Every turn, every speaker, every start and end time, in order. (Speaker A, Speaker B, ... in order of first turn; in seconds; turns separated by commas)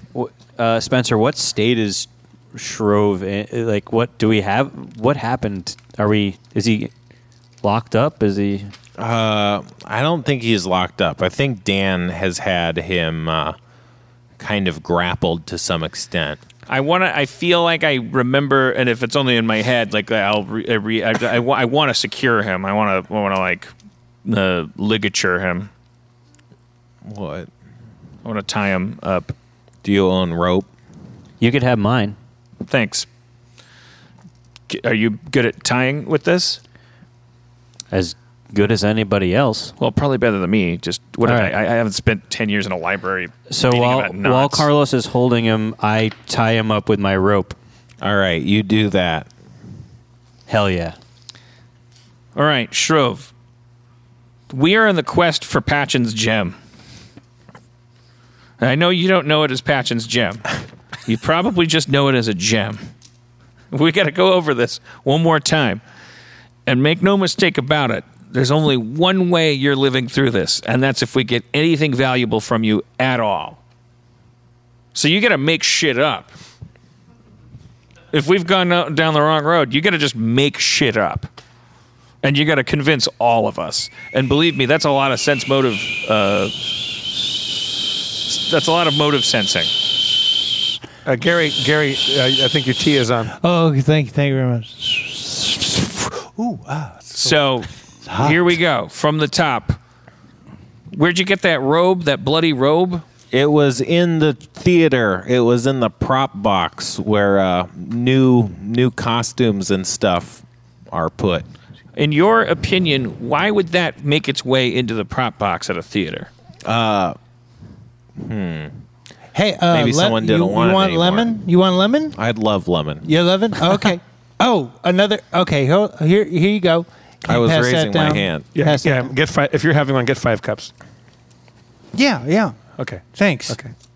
Speaker A: 0.1-6.9, Speaker A: 7.6-8.7, Speaker B: 9.0-13.6, Speaker B: 14.4-16.4, Speaker C: 16.7-23.7, Speaker C: 24.2-25.7, Speaker B: 27.0-27.5, Speaker C: 28.2-29.3, Speaker B: 29.8-30.7, Speaker A: 31.4-32.2, Speaker C: 32.6-33.1, Speaker C: 34.7-36.6, Speaker A: 37.9-39.7, Speaker C: 39.8-44.6, Speaker A: 41.2-41.5, Speaker A: 43.5-47.5, Speaker B: 48.0-49.3, Speaker A: 50.5-51.0, Speaker C: 52.3-53.3, Speaker C: 54.5-56.5, Speaker C: 58.6-60.5, Speaker C: 61.0-62.8, Speaker C: 63.7-65.8, Speaker C: 66.7-73.6, Speaker C: 74.9-76.3, Speaker C: 78.1-81.3, Speaker C: 82.2-86.5, Speaker C: 88.3-89.7, Speaker D: 91.0-93.3, Speaker E: 93.4-97.3, Speaker C: 97.1-99.8, Speaker E: 98.0-98.5, Speaker C: 100.9-103.0, Speaker B: 103.3-111.5, Speaker C: 112.0-116.3, Speaker B: 116.6-117.2, Speaker B: 118.2-118.7, Speaker E: 119.3-122.2, Speaker B: 119.7-121.3, Speaker B: 122.2-123.0, Speaker E: 123.0-129.1, Speaker B: 127.2-128.5, Speaker D: 128.5-130.7, Speaker E: 131.9-132.6, Speaker D: 132.8-133.7, Speaker E: 133.1-133.6